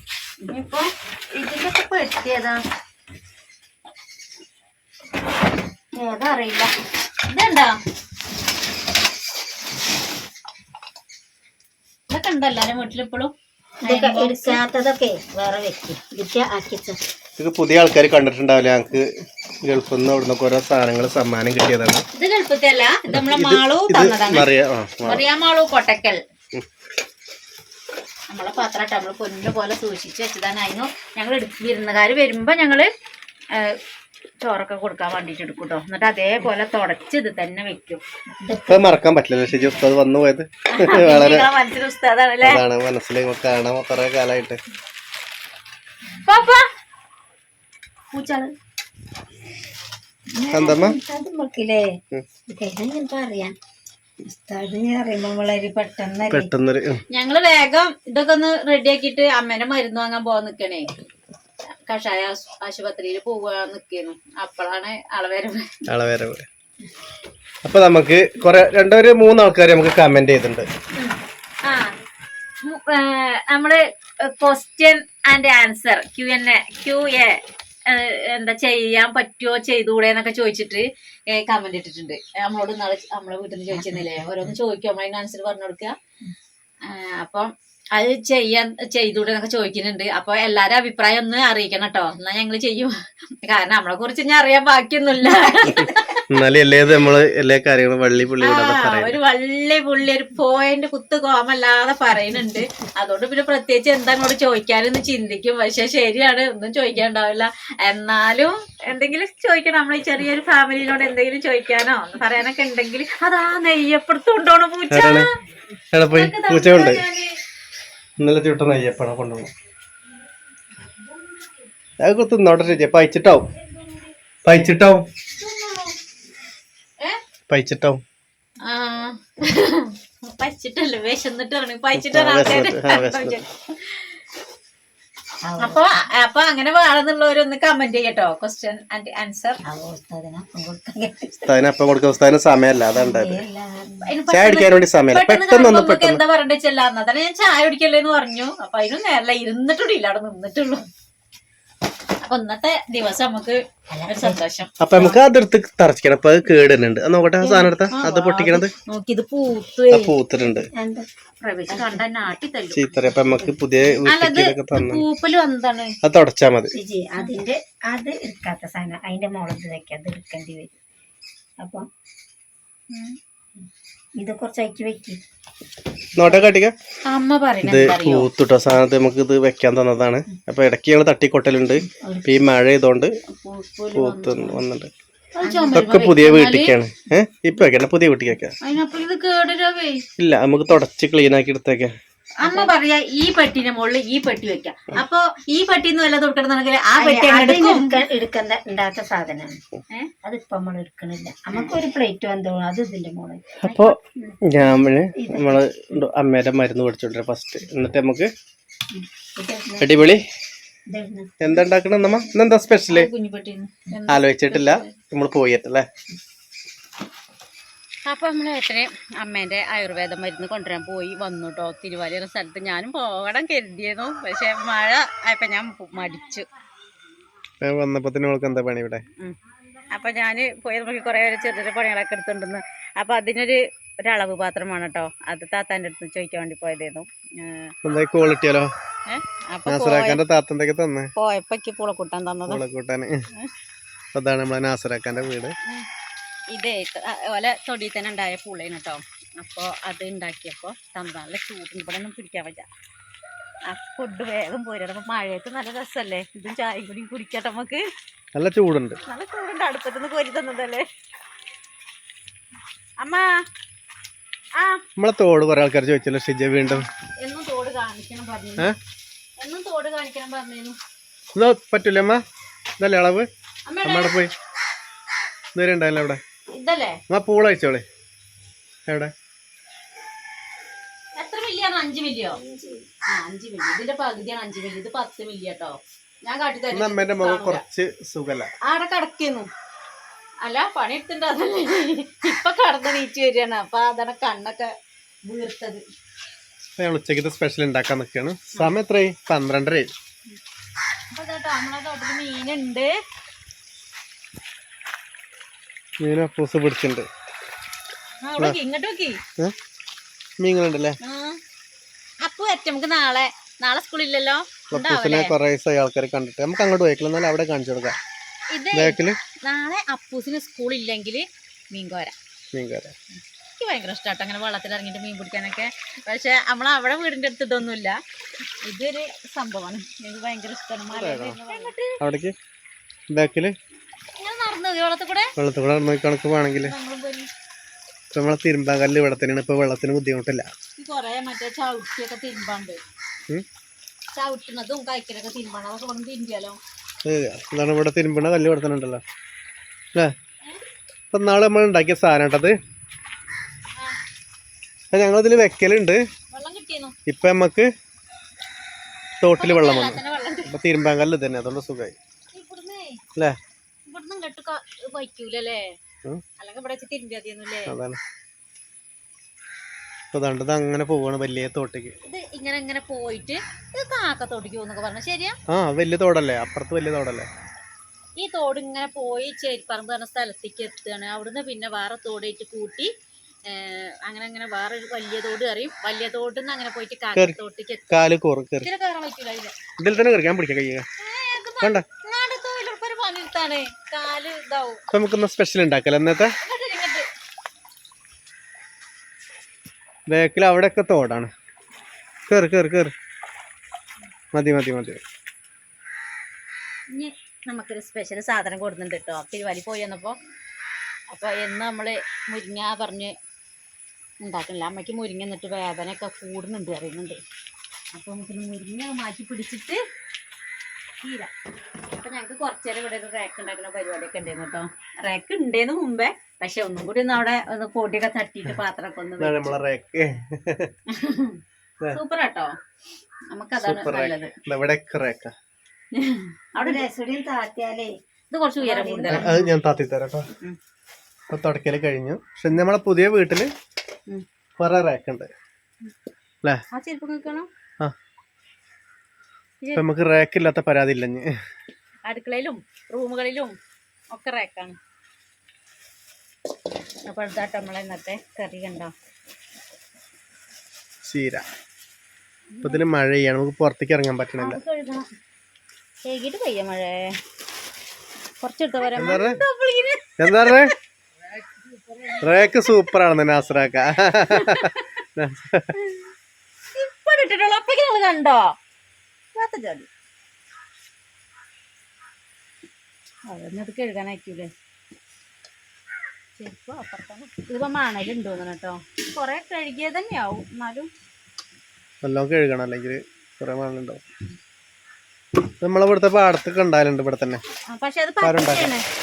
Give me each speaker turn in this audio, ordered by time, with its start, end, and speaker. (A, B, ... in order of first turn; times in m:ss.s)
0:00.5-0:02.6 A
0:06.0-0:06.7 A
0:07.3-0:07.8 A
0:12.1-0:13.3 A
0:13.8-0:17.0 B
0:13.8-0:14.6 A
0:17.4-0:19.1 C
0:19.6-0:22.0 C
0:22.1-0:24.5 A
0:23.1-0:25.2 C
0:25.0-0:26.2 A
0:28.3-0:32.9 A
0:33.5-0:33.8 A
0:34.4-0:38.0 A
0:38.4-0:38.9 B
0:38.7-0:41.5 C
0:40.7-0:42.6 A
0:42.4-0:44.6 C
0:46.2-0:46.7 A
0:48.1-0:48.5 A
0:50.3-0:51.9 B
0:50.5-0:51.0 C
0:52.5-0:53.5 B
0:54.2-0:56.5 B
0:56.3-0:57.0 C
0:57.1-1:00.9 A
1:01.8-1:05.6 A
1:05.9-1:06.4 C
1:07.6-1:10.7 C
1:11.0-1:11.9 A
1:12.6-1:25.9 A
1:23.7-1:24.4 B
1:26.8-1:36.2 A
1:35.2-1:36.1 B
1:36.3-1:39.2 C
1:38.4-1:55.3 A
1:54.9-1:55.3 C
1:55.9-1:57.0 C
1:56.1-1:57.3 A
1:58.2-1:59.5 C
2:02.0-2:03.5 C
2:04.4-2:05.0 C
2:05.3-2:05.9 A
2:07.5-2:08.0 C
2:08.6-2:14.2 A
2:12.0-2:13.4 C
2:15.4-2:15.8 B
2:15.6-2:19.6 A
2:19.6-2:21.6 B
2:21.5-2:23.4 C
2:22.9-2:24.2 B
2:24.0-2:30.8 A
2:24.3-2:26.2 C
2:32.2-2:35.2 A
2:33.9-2:34.4 B
2:34.8-2:38.7 C
2:37.4-2:40.1 A
2:39.9-2:40.7 C
2:40.7-2:41.1 B
2:41.4-2:42.9 A
2:41.7-2:42.0 B
2:42.7-2:45.0 C
2:43.0-2:43.5 B
2:44.0-2:46.0 A
2:46.0-2:46.7 C
2:46.7-2:50.8 B
2:51.6-2:51.8 B
2:52.9-2:53.2 A
2:54.2-2:55.2 B
2:56.2-2:56.7 C
2:57.0-2:58.3 A
2:57.6-3:03.1 C
3:01.9-3:02.5 B
3:03.3-3:04.6 A
3:03.9-3:04.9 C
3:05.3-3:06.7 A
3:05.4-3:05.8 B
3:05.7-3:08.5 C
3:08.6-3:10.0 A
3:10.2-3:11.9 C
3:12.4-3:18.0 A
3:12.4-3:12.7 B
3:17.0-3:19.6 B
3:20.2-3:23.7 B
3:23.6-3:28.3 C
3:23.6-3:24.3 A
3:25.1-3:25.6 B
3:28.9-3:30.1 B
3:29.8-3:30.2 C
3:30.9-3:31.5 B
3:31.4-3:33.1 C
3:32.9-3:34.9 A
3:34.1-3:35.9 C
3:38.0-3:46.5 A
3:47.6-3:49.0 C
3:49.9-3:57.7 A
3:57.8-3:58.7 C
3:59.1-4:00.2 A
3:59.7-4:01.1 C
4:01.2-4:02.6 A
4:02.5-4:03.1 C
4:04.1-4:05.6 C
4:06.5-4:12.7 A
4:13.7-4:17.8 A
4:18.3-4:19.0 C
4:19.0-4:20.8 A
4:23.0-4:23.3 A
4:25.0-4:26.9 C
4:26.6-4:28.7 A
4:29.4-4:30.8 A
4:31.3-4:32.2 C
4:32.8-4:33.3 C
4:33.7-4:34.2 A
4:33.8-4:34.3 C
4:35.5-4:36.2 C
4:36.5-4:37.0 A
4:37.1-4:37.8 C
4:38.9-4:39.1 C
4:41.2-4:42.4 A
4:42.3-4:42.8 B
4:43.1-4:47.6 A
4:46.7-4:48.5 C
4:48.6-4:49.5 A
4:50.4-4:54.7 A
4:55.2-4:55.8 A
4:56.8-4:59.9 C
5:01.1-5:02.9 A
5:06.0-5:07.1 C
5:08.2-5:09.2 A
5:10.4-5:11.0 C
5:11.0-5:11.4 A
5:12.2-5:15.3 A
5:14.7-5:18.0 C
5:18.5-5:22.1 A
5:18.7-5:19.2 C
5:22.5-5:22.9 C
5:23.6-5:28.0 A
5:28.6-5:31.9 A
5:30.9-5:32.3 C
5:33.1-5:33.5 C
5:34.2-5:35.3 A
5:35.4-5:36.7 C
5:36.6-5:37.3 A
5:38.1-5:40.5 C
5:40.8-5:42.8 A
5:44.1-5:46.6 A
5:47.0-5:49.0 C
5:51.1-5:52.6 C
5:54.9-5:56.0 C
5:56.3-5:56.9 A
5:57.1-5:57.7 C
5:59.2-6:01.9 C
5:59.4-6:00.5 A
6:02.3-6:03.0 A
6:03.8-6:05.8 A
6:06.4-6:07.7 A
6:07.7-6:08.0 C
6:10.1-6:11.9 C
6:12.0-6:15.4 A
6:15.5-6:17.3 C
6:18.2-6:22.9 A
6:23.5-6:28.0 A
6:27.9-6:28.7 C
6:28.6-6:29.5 A
6:29.8-6:30.8 C
6:31.0-6:34.8 A
6:34.9-6:36.3 C
6:36.4-6:37.1 A
6:40.1-6:41.3 C
6:42.3-6:42.9 C
6:44.3-6:45.0 C
6:46.9-6:50.2 A
6:51.1-6:53.1 A
6:54.2-6:57.2 A
6:57.9-6:59.8 A
7:01.0-7:01.3 A
7:02.0-7:09.6 A
7:09.2-7:10.7 C
7:10.9-7:11.4 A
7:11.9-7:12.5 A
7:13.3-7:14.3 A
7:13.6-7:15.3 C
7:15.9-7:16.8 A
7:16.5-7:17.9 B
7:18.3-7:19.3 A
7:18.6-7:19.5 B
7:19.1-7:20.3 C
7:21.3-7:23.5 C
7:24.6-7:25.3 C
7:26.7-7:27.5 A
7:29.7-7:31.3 C
7:32.0-7:33.6 A
7:34.1-7:34.8 A
7:37.0-7:38.9 A
7:41.0-7:41.4 C
7:42.5-7:42.8 A
7:42.6-7:44.6 C
7:44.4-7:45.0 A
7:46.0-7:47.1 A
7:48.4-7:50.7 A
7:48.9-7:49.4 C
7:50.2-7:50.7 C
7:51.3-7:52.7 A
7:52.2-7:55.7 C
7:54.3-7:54.9 A
7:55.7-7:56.0 A
7:56.7-7:58.5 A
7:59.3-7:59.9 A
8:03.3-8:04.5 A
8:06.4-8:10.9 A
8:12.0-8:14.0 C
8:15.6-8:17.4 C
8:17.7-8:18.8 A
8:18.2-8:18.7 C